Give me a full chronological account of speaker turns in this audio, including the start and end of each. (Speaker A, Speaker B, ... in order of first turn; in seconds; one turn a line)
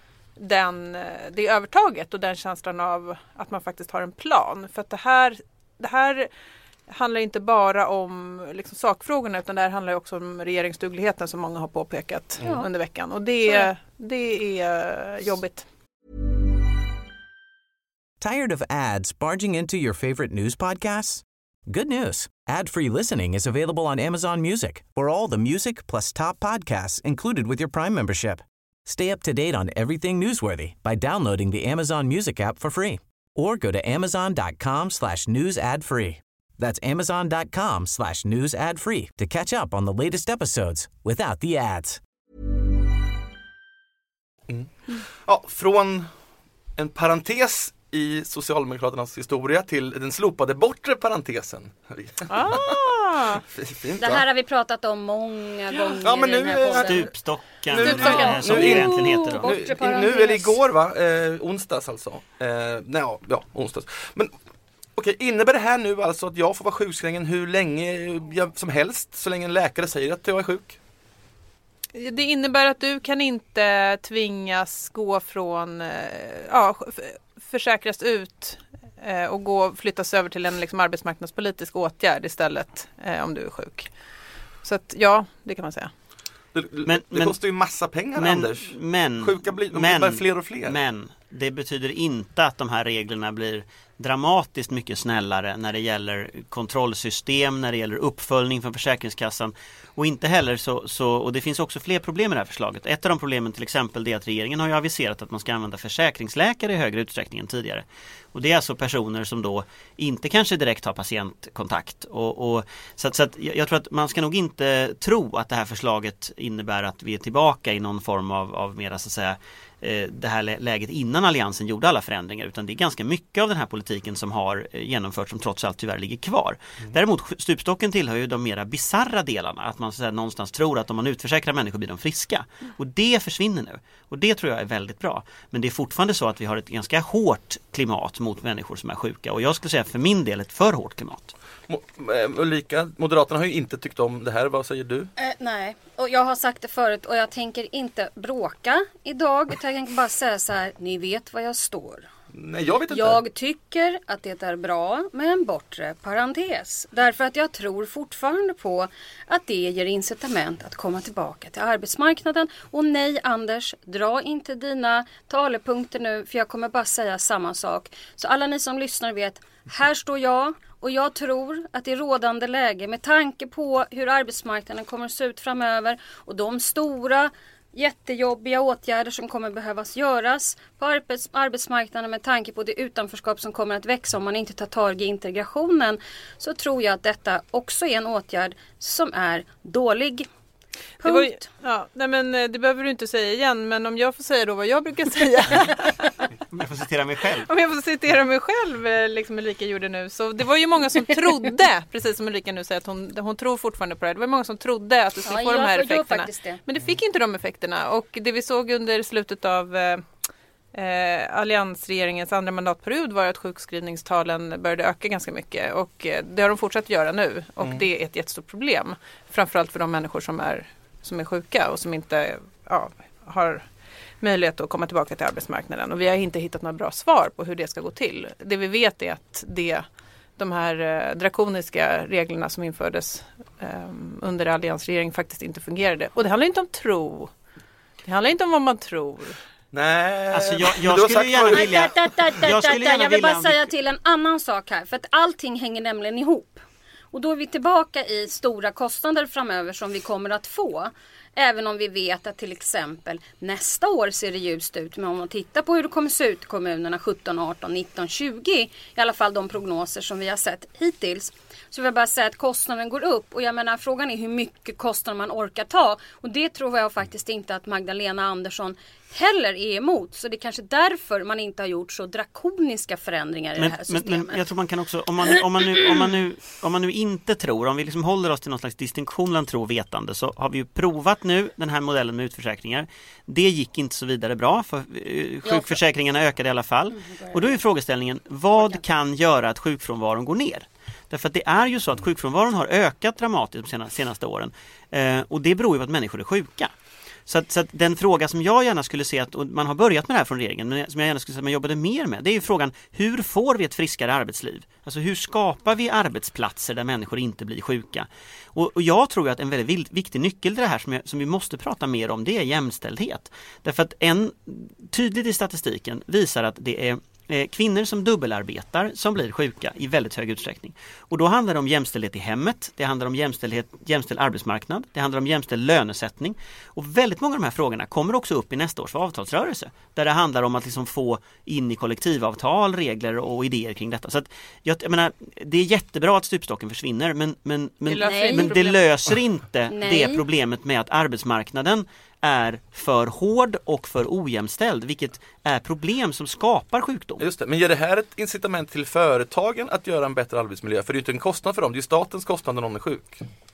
Speaker A: 0.4-6.3
Speaker A: 6.9-15.7
Speaker B: 12.4-12.7
Speaker C: 18.2-42.0
Speaker D: 44.5-46.1
Speaker D: 46.8-52.9
Speaker A: 52.3-53.4
Speaker D: 53.4-54.2
Speaker B: 54.0-57.1
Speaker D: 56.0-57.0
Speaker E: 56.9-59.6
Speaker D: 57.7-64.3
Speaker A: 57.8-58.8
Speaker B: 57.9-60.5
Speaker D: 65.0-70.8
Speaker A: 71.9-83.9
Speaker A: 84.6-85.9
Speaker D: 86.5-90.8
Speaker E: 86.9-87.4
Speaker E: 88.2-141.3
Speaker D: 141.7-145.1
Speaker B: 145.2-152.1
Speaker D: 152.3-153.2
Speaker B: 152.9-190.3
Speaker B: 191.0-191.5
Speaker A: 191.0-196.3
Speaker E: 196.5-197.5
Speaker A: 197.4-210.1
Speaker B: 205.2-206.6
Speaker A: 210.7-223.7
Speaker A: 224.2-229.9
Speaker A: 230.4-237.3
Speaker A: 238.0-239.4
Speaker D: 239.7-241.9
Speaker E: 240.3-243.7
Speaker B: 241.5-274.4
Speaker E: 273.6-296.7
Speaker B: 285.4-285.8
Speaker B: 286.9-287.6
Speaker E: 297.3-347.2
Speaker A: 337.9-338.8
Speaker B: 338.0-338.6
Speaker B: 339.7-340.2
Speaker D: 347.2-353.2